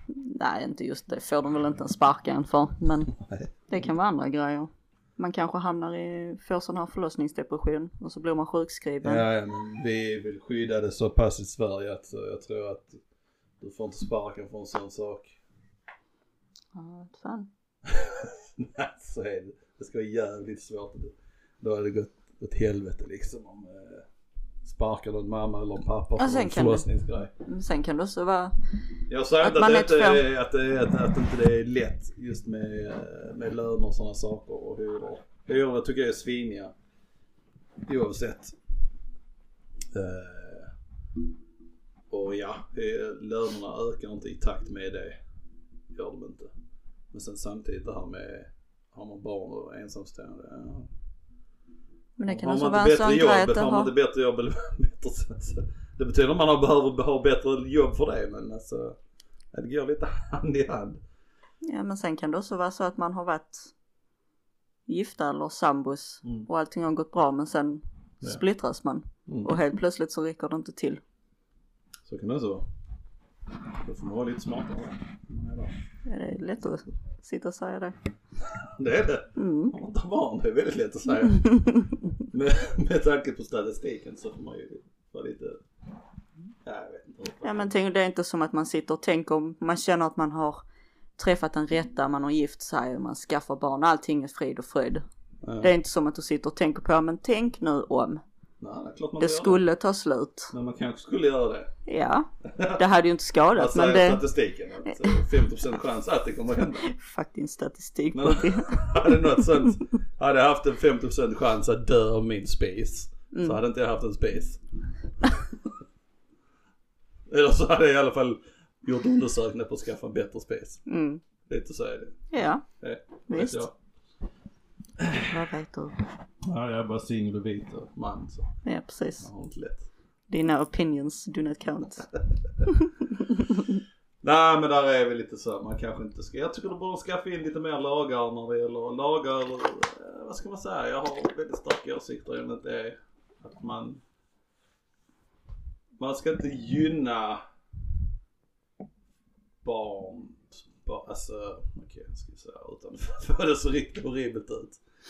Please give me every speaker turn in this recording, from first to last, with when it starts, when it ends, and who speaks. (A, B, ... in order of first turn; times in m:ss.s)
0:00.1-0:03.1 A
0:03.1-0:03.5 B
0:03.7-0:09.2 A
0:09.0-0:13.0 B
0:13.6-0:15.3 B
0:16.7-0:17.5 A
0:17.8-0:24.0 B
0:24.6-0:27.3 B
0:26.2-0:26.9 A
0:27.4-0:28.5 A
0:29.1-0:36.7 B
0:29.4-0:30.2 A
0:37.8-0:38.5 B
0:39.9-0:40.7 B
0:42.1-0:45.2 B
0:45.9-0:46.5 B
0:47.1-0:50.9 B
0:52.2-0:53.9 A
0:52.3-0:59.0 B
0:59.5-1:01.0 B
1:01.6-1:03.7 A
1:04.9-1:11.0 A
1:09.3-1:09.5 B
1:12.0-1:12.7 B
1:13.8-1:15.7 B
1:16.0-1:18.0 A
1:18.4-1:21.6 B
1:19.3-1:19.7 A
1:21.4-1:21.9 A
1:22.2-1:25.6 B
1:26.6-1:27.7 B
1:27.4-1:30.6 A
1:31.2-1:35.0 A
1:35.4-1:35.7 B
1:35.6-1:38.2 A
1:38.6-1:39.6 B
1:39.2-1:40.5 A
1:40.5-1:41.7 B
1:41.8-1:44.2 A
1:42.4-1:42.8 B
1:43.5-1:46.9 B
1:46.8-1:49.2 A
1:48.1-1:54.6 B
1:53.3-1:53.6 A
1:55.2-1:55.5 B
1:57.3-2:00.8 B
2:00.8-2:01.2 A
2:01.4-2:02.2 B
2:02.3-2:02.6 A
2:02.8-2:03.7 B
2:03.3-2:03.6 A
2:05.0-2:05.3 B
2:05.3-2:06.0 A
2:06.4-2:08.5 B
2:08.6-2:09.3 A
2:09.2-2:09.9 B
2:10.3-2:12.1 A
2:12.7-2:13.6 A
2:14.2-2:24.0 B
2:26.0-2:27.4 B
2:29.6-2:34.8 B